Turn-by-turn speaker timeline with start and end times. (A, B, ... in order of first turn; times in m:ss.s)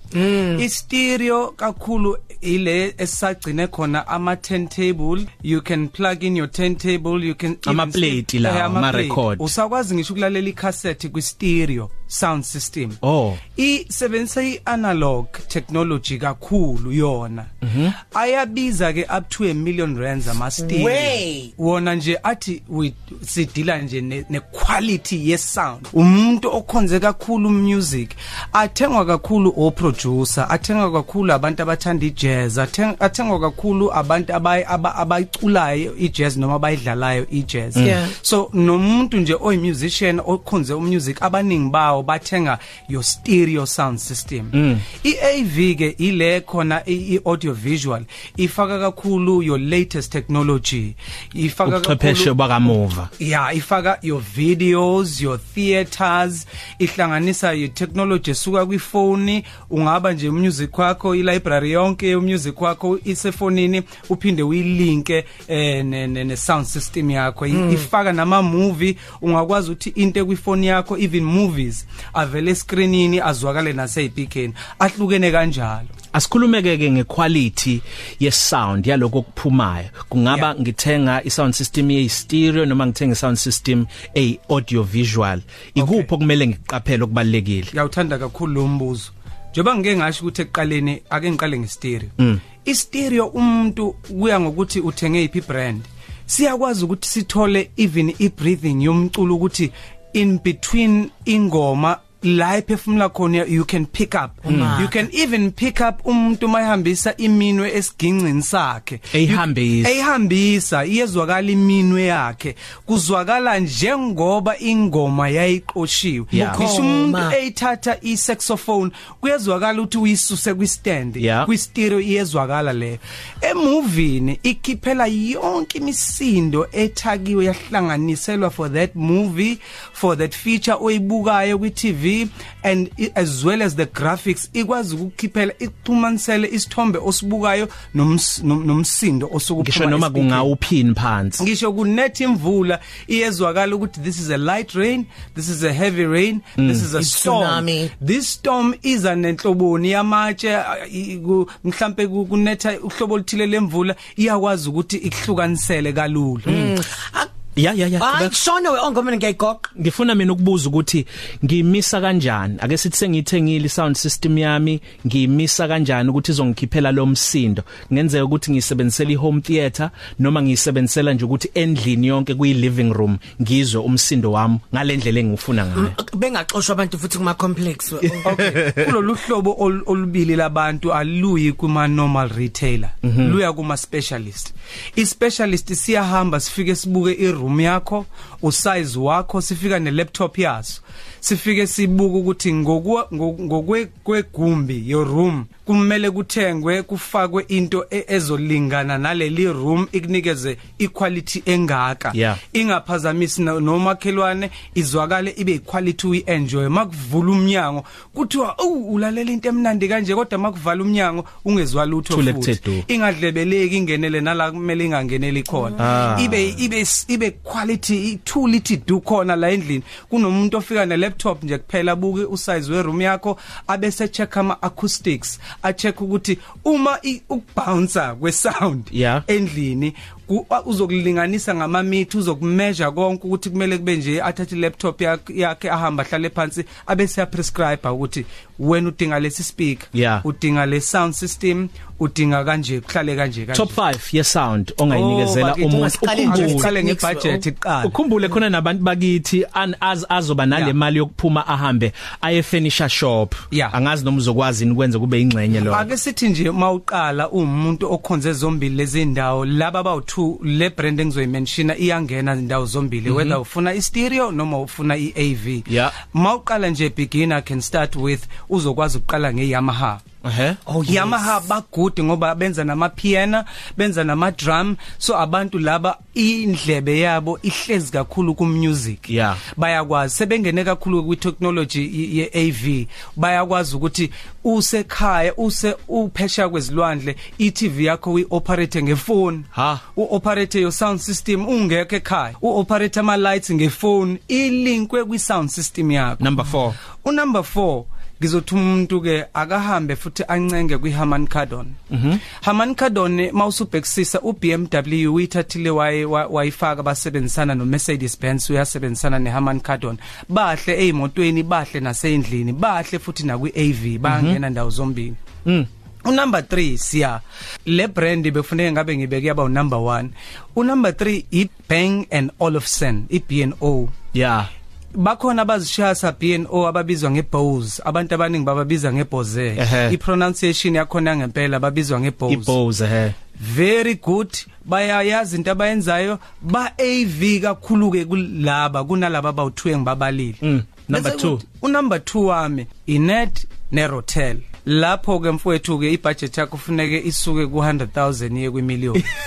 0:00.1-0:00.6 A
0:00.5-0:13.0 B
0:07.6-0:09.5 C
0:13.0-0:13.4 C
0:13.6-0:52.3 B
0:17.6-0:17.9 C
0:20.6-0:21.5 A
0:37.8-0:38.1 A
0:44.5-0:44.8 C
0:51.6-0:53.1 C
0:53.2-1:15.9 B
1:16.1-1:27.7 C
1:25.8-1:26.1 B
1:27.7-2:20.5 B
1:44.4-1:45.0 A
1:44.5-1:44.8 C
1:49.1-1:49.9 C
1:56.3-1:56.7 C
1:56.3-1:57.4 A
2:01.2-2:01.5 C
2:19.6-2:21.4 C
2:21.4-2:36.7 B
2:26.6-2:26.8 C
2:26.9-2:27.9 A
2:36.5-2:37.3 A
2:37.6-2:38.3 C
2:38.0-2:39.7 A
2:39.8-2:55.9 C
2:55.7-2:58.5 A
2:58.2-4:03.8 B
3:03.1-3:03.3 C
3:22.1-3:22.4 C
3:32.1-3:32.8 C
3:35.8-3:36.3 C
3:48.9-3:49.2 C
3:59.9-4:00.2 C
4:03.5-4:06.7 C
4:04.9-4:05.6 B
4:05.5-4:07.4 A
4:06.2-4:08.0 B
4:07.8-4:15.9 C
4:15.6-4:30.0 B
4:23.1-4:23.3 C
4:25.7-4:25.9 C
4:30.2-4:30.6 C
4:30.6-4:31.3 A
4:30.8-5:15.2 B
4:39.1-4:39.4 C
4:49.5-4:49.8 C
4:56.2-4:56.8 C
5:01.9-5:02.2 C
5:14.0-5:14.4 C
5:16.0-5:23.9 B
5:24.1-5:24.5 C
5:25.0-5:32.6 B
5:29.6-5:30.0 C
5:32.3-5:33.1 C
5:33.4-5:49.1 B
5:40.4-5:41.4 C